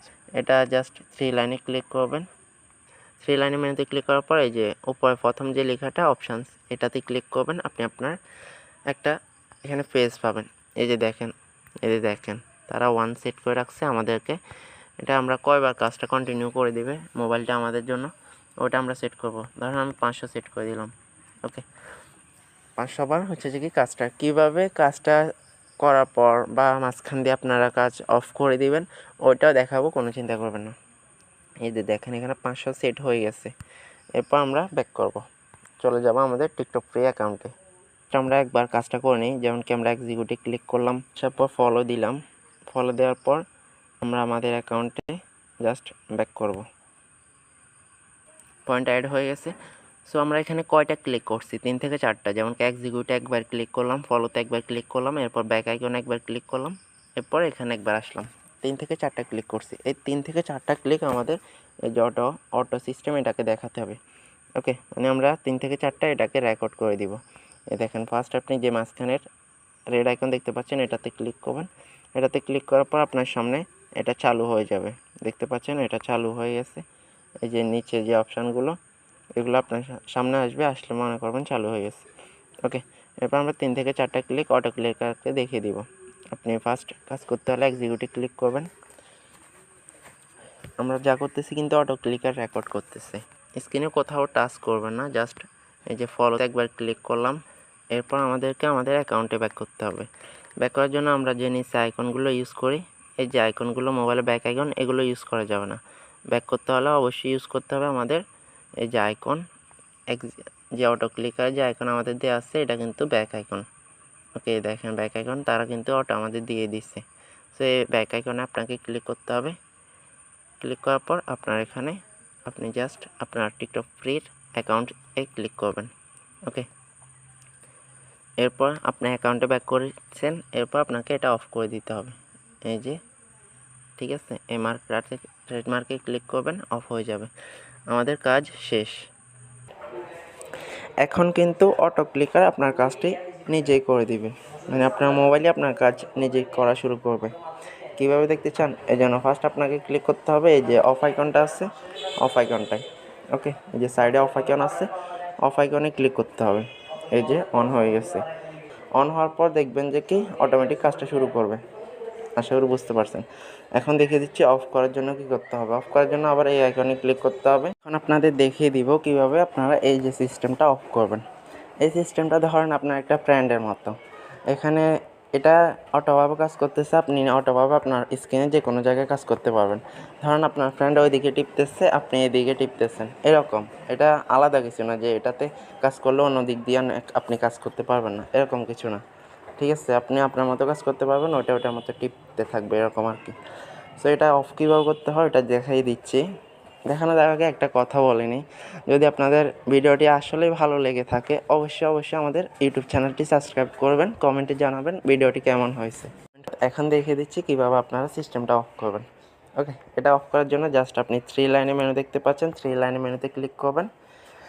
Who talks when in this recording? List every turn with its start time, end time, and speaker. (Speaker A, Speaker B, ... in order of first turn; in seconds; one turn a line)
Speaker A: 0.4-2.3
Speaker A: 3.2-8.2
Speaker A: 8.9-9.2
Speaker A: 9.7-14.4
Speaker A: 15.0-20.9
Speaker A: 22.8-25.2
Speaker A: 25.8-30.8
Speaker A: 31.6-33.5
Speaker A: 34.2-35.2
Speaker A: 35.8-37.5
Speaker A: 38.1-42.2
Speaker A: 42.7-43.4
Speaker A: 44.0-46.7
Speaker A: 48.7-49.5
Speaker A: 50.1-64.0
Speaker A: 64.6-67.2
Speaker A: 67.7-69.2
Speaker A: 69.9-76.8
Speaker A: 77.4-78.8
Speaker A: 79.4-82.1
Speaker A: 82.6-88.7
Speaker A: 90.8-97.4
Speaker A: 97.9-105.8
Speaker A: 106.3-108.2
Speaker A: 108.8-109.4
Speaker A: 110.1-113.7
Speaker A: 114.3-119.6
Speaker A: 120.6-125.9
Speaker A: 128.4-133.0
Speaker A: 134.0-137.3
Speaker A: 137.9-139.0
Speaker A: 141.0-147.3
Speaker A: 148.0-154.9
Speaker A: 155.4-158.3
Speaker A: 159.0-161.6
Speaker A: 162.4-163.2
Speaker A: 163.8-171.2
Speaker A: 171.8-174.0
Speaker A: 174.5-189.0
Speaker A: 189.6-193.4
Speaker A: 194.0-196.2
Speaker A: 196.9-209.1
Speaker A: 209.6-213.9